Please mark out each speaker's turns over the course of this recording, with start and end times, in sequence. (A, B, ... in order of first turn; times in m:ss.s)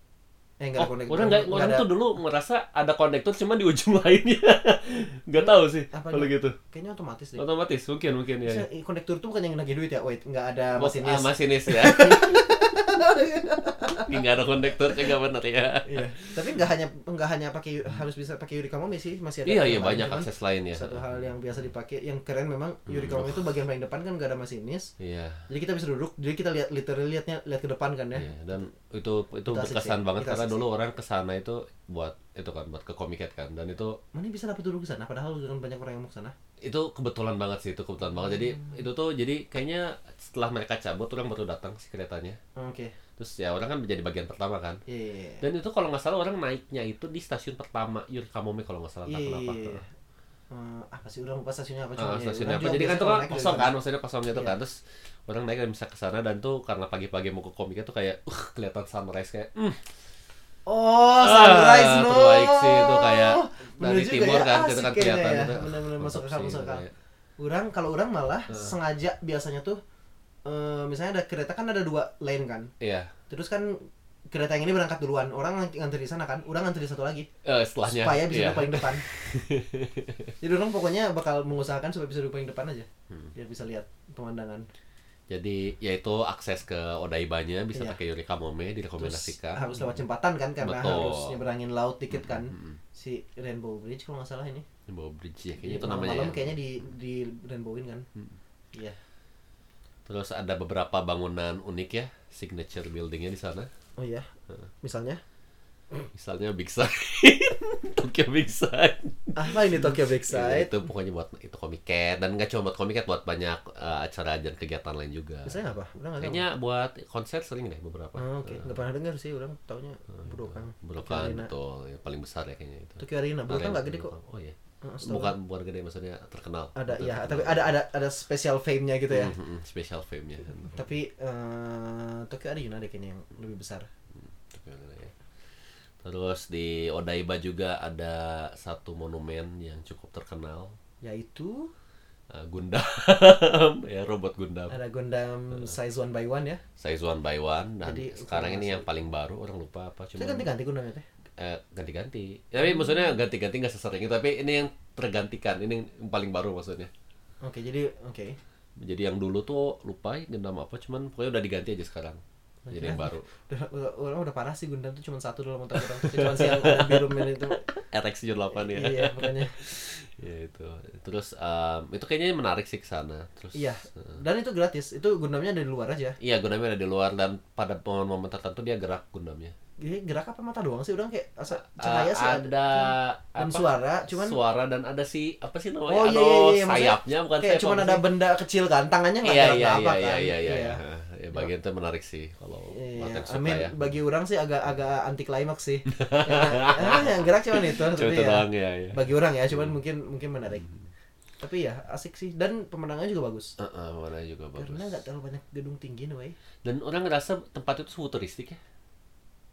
0:00.6-0:01.9 A
0:00.8-0:06.6 B
0:05.4-0:07.4 A
0:07.4-0:08.7 B
0:08.4-0:14.2 A
0:10.8-0:12.7 B
0:14.0-0:16.5 B
0:15.9-0:24.9 A
0:19.4-0:21.1 B
0:22.9-0:23.6 B
0:25.0-0:25.5 B
0:25.5-0:28.7 A
0:28.1-0:34.0 B
0:29.5-0:30.6 A
0:34.1-0:36.3 A
0:36.6-0:42.4 B
0:42.6-0:43.0 A
0:43.2-0:44.8 B
0:44.9-0:45.4 A
0:45.4-0:49.8 B
0:49.1-0:49.9 A
0:50.5-0:53.8 A
0:52.0-0:59.8 B
1:00.7-1:06.9 A
1:01.2-1:06.9 B
1:07.4-1:09.8 A
1:10.4-1:12.7 A
1:12.8-1:13.1 B
1:13.3-1:17.3 A
1:17.4-1:20.3 B
1:17.8-1:19.0 A
1:20.4-1:24.7 A
1:25.3-1:29.9 B
1:29.0-1:34.6 A
1:30.6-1:31.4 B
1:32.2-1:32.8 B
1:34.9-1:36.6 B
1:35.6-1:38.0 A
1:40.1-1:43.7 B
1:44.0-1:44.3 A
1:44.8-1:45.2 A
1:46.1-1:55.6 B
1:49.4-1:50.9 A
1:55.5-1:56.4 A
1:56.2-1:58.8 B
1:58.2-2:01.5 A
2:00.8-2:07.7 B
2:03.0-2:04.1 A
2:04.8-2:05.4 A
2:06.8-2:09.3 A
2:09.1-2:10.8 B
2:10.7-2:13.9 A
2:14.2-2:15.1 B
2:16.0-2:20.8 B
2:21.0-2:21.7 A
2:22.3-2:24.8 B
2:24.7-2:26.6 A
2:26.8-2:30.5 B
2:27.8-2:28.9 A
2:30.2-2:31.0 A
2:31.4-2:36.9 B
2:37.4-2:38.4 A
2:38.8-2:43.3 B
2:42.7-2:47.8 A
2:45.8-2:54.2 B
2:48.6-2:49.6 A
2:53.5-2:56.2 A
2:56.2-2:59.5 B
2:59.8-3:04.4 A
3:01.5-3:08.1 B
3:05.9-3:10.8 A
3:09.2-3:13.9 B
3:12.7-3:20.7 A
3:15.9-3:19.0 B
3:21.4-3:23.5 A
3:23.6-3:25.0 B
3:24.6-3:26.4 A
3:26.6-3:28.6 B